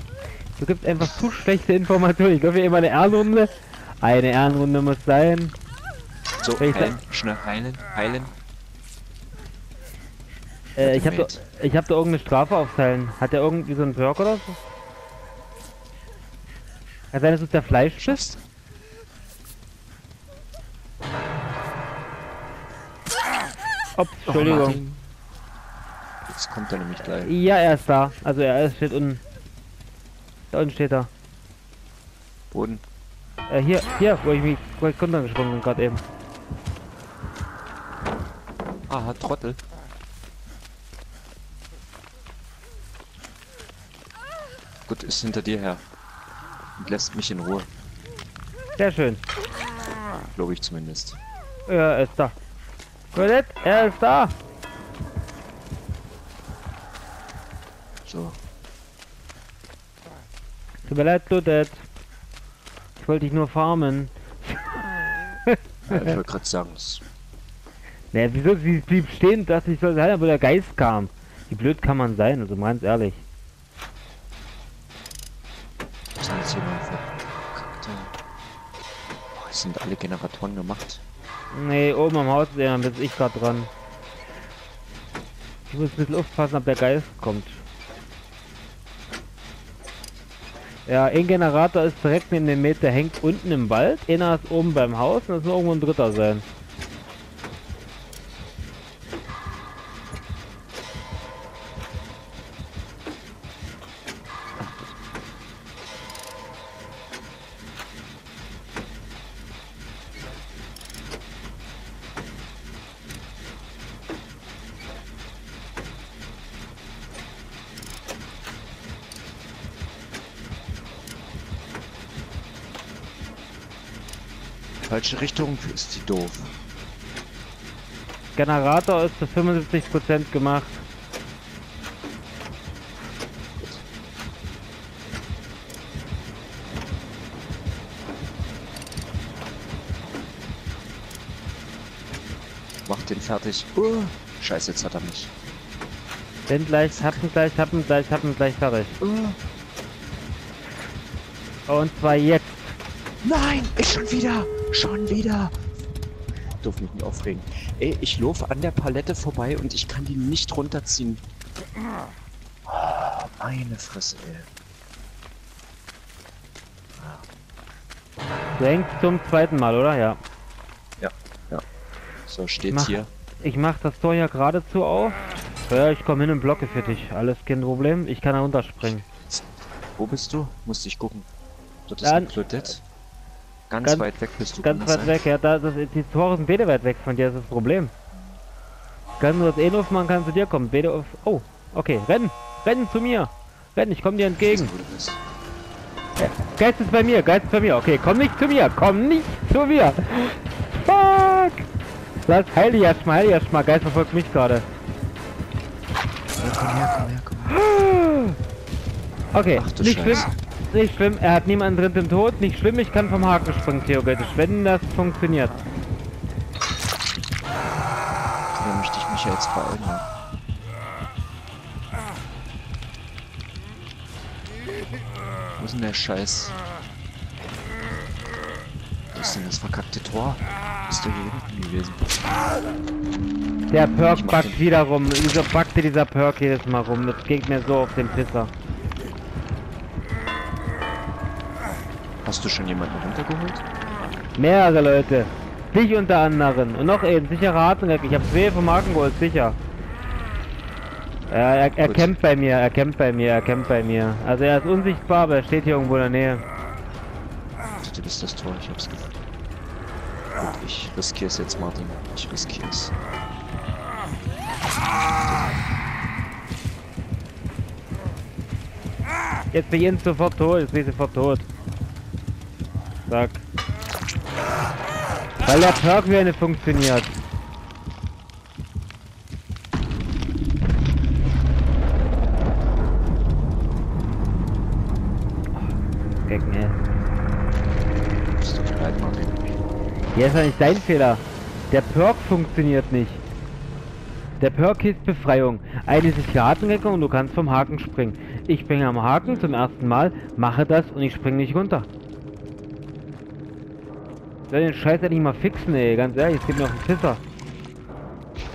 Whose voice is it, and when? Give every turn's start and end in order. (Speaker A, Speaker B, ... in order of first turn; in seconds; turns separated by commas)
Speaker A: 0.6-5.5, Speaker B: 6.4-8.3, Speaker A: 6.6-7.0, Speaker B: 10.8-11.4, Speaker A: 10.8-14.6, Speaker A: 17.1-18.2, Speaker B: 18.0-18.4, Speaker A: 24.0-24.8, Speaker B: 24.3-24.9, Speaker B: 26.2-27.3, Speaker A: 27.0-29.2, Speaker A: 30.5-31.1, Speaker B: 32.5-32.8, Speaker A: 33.5-36.0, Speaker B: 38.9-39.6, Speaker B: 44.9-45.8, Speaker B: 46.8-47.7, Speaker A: 48.8-49.2, Speaker B: 50.3-51.2, Speaker A: 51.7-52.3, Speaker A: 53.1-54.3, Speaker B: 58.0-58.4, Speaker A: 60.9-61.8, Speaker A: 63.0-66.2, Speaker B: 65.9-67.0, Speaker A: 68.1-73.2, Speaker B: 76.2-78.1, Speaker B: 79.3-81.0, Speaker A: 81.5-83.7, Speaker A: 85.7-87.6, Speaker A: 90.9-96.4, Speaker B: 124.9-126.5, Speaker A: 128.3-130.8, Speaker B: 142.8-145.3, Speaker A: 146.5-149.0, Speaker B: 146.9-147.2, Speaker B: 149.0-149.4, Speaker A: 151.7-152.8, Speaker B: 153.2-155.5, Speaker B: 156.6-161.2, Speaker B: 162.7-164.5, Speaker B: 167.0-167.2, Speaker A: 168.6-170.2, Speaker B: 171.0-171.6, Speaker B: 172.2-173.1, Speaker A: 172.7-179.0, Speaker B: 178.8-181.3, Speaker B: 181.9-182.8, Speaker A: 182.0-182.4, Speaker B: 183.7-185.2, Speaker A: 183.8-187.9, Speaker A: 189.2-194.7, Speaker B: 194.4-195.2, Speaker A: 196.2-201.7, Speaker A: 202.2-204.6, Speaker B: 206.4-207.6, Speaker A: 207.7-208.3, Speaker A: 209.3-215.6, Speaker B: 209.5-210.3, Speaker B: 218.5-220.1, Speaker B: 225.6-226.6, Speaker B: 229.1-232.1, Speaker A: 233.7-238.5, Speaker B: 233.9-234.6, Speaker B: 242.2-243.6, Speaker A: 244.4-249.6, Speaker A: 251.3-256.4, Speaker B: 251.8-252.1, Speaker B: 257.8-259.2, Speaker B: 260.4-262.9, Speaker B: 264.9-265.6, Speaker A: 269.5-271.4, Speaker A: 273.1-273.4, Speaker A: 275.4-277.1, Speaker A: 286.3-286.8, Speaker B: 288.3-289.6, Speaker A: 290.1-293.2, Speaker A: 294.4-301.9, Speaker B: 299.2-299.6, Speaker A: 304.5-307.2